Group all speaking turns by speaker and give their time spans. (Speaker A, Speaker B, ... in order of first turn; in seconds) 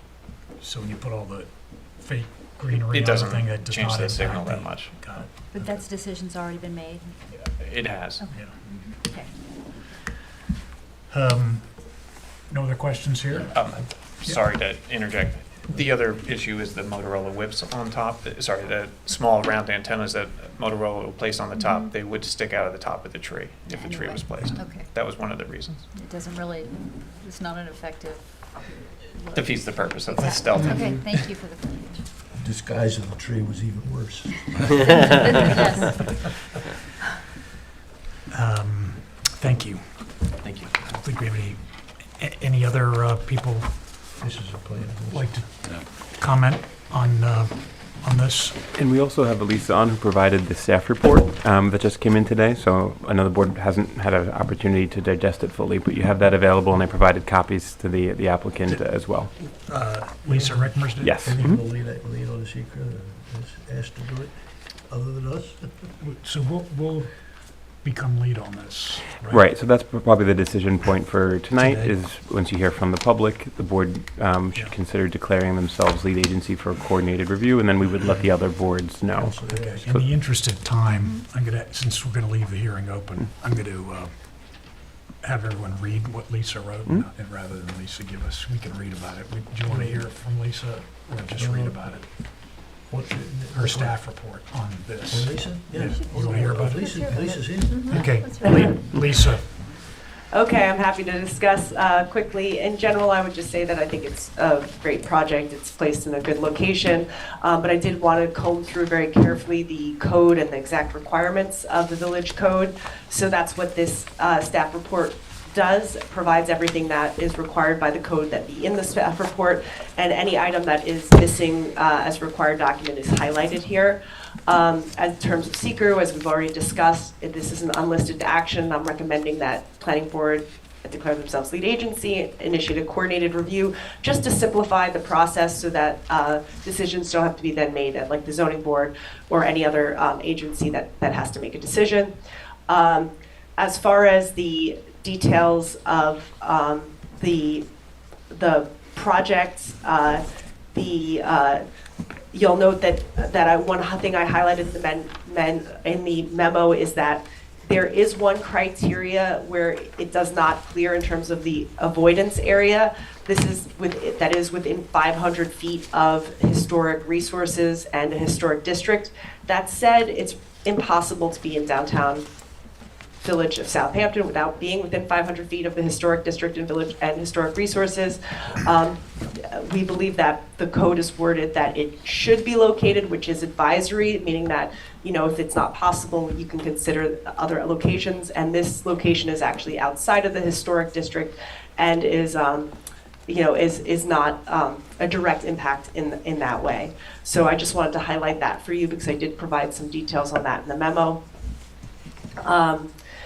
Speaker A: 0.6-5.8, 8.3-8.6, 11.1-11.8, 12.5-13.7, 38.3-40.3, 40.9-44.0, 45.1-48.7, 59.4-61.5, 66.0-69.5, 79.5-92.0, 93.5-97.1, 97.7-99.6
Speaker B: 2.7-4.9, 7.6-8.2, 13.5-25.9, 29.3-31.1, 40.4-40.7
Speaker C: 5.5-7.2, 8.2-9.3, 21.6-21.9, 23.7-24.9, 25.9-32.0, 34.8-36.0, 95.8-98.8
Speaker D: 32.3-35.0, 44.2-45.4, 60.2-64.3, 64.8-65.7, 71.6-71.9, 79.1-80.0, 89.7-90.1, 91.3-92.0, 92.8-94.0, 95.1-97.9
Speaker E: 48.7-59.3, 61.0-61.6, 69.3-79.3
Speaker F: 100.3-142.1, 142.7-147.6, 148.3-150.2, 150.7-151.6, 152.3-172.2, 173.2-192.7, 193.3-201.2, 202.4-202.9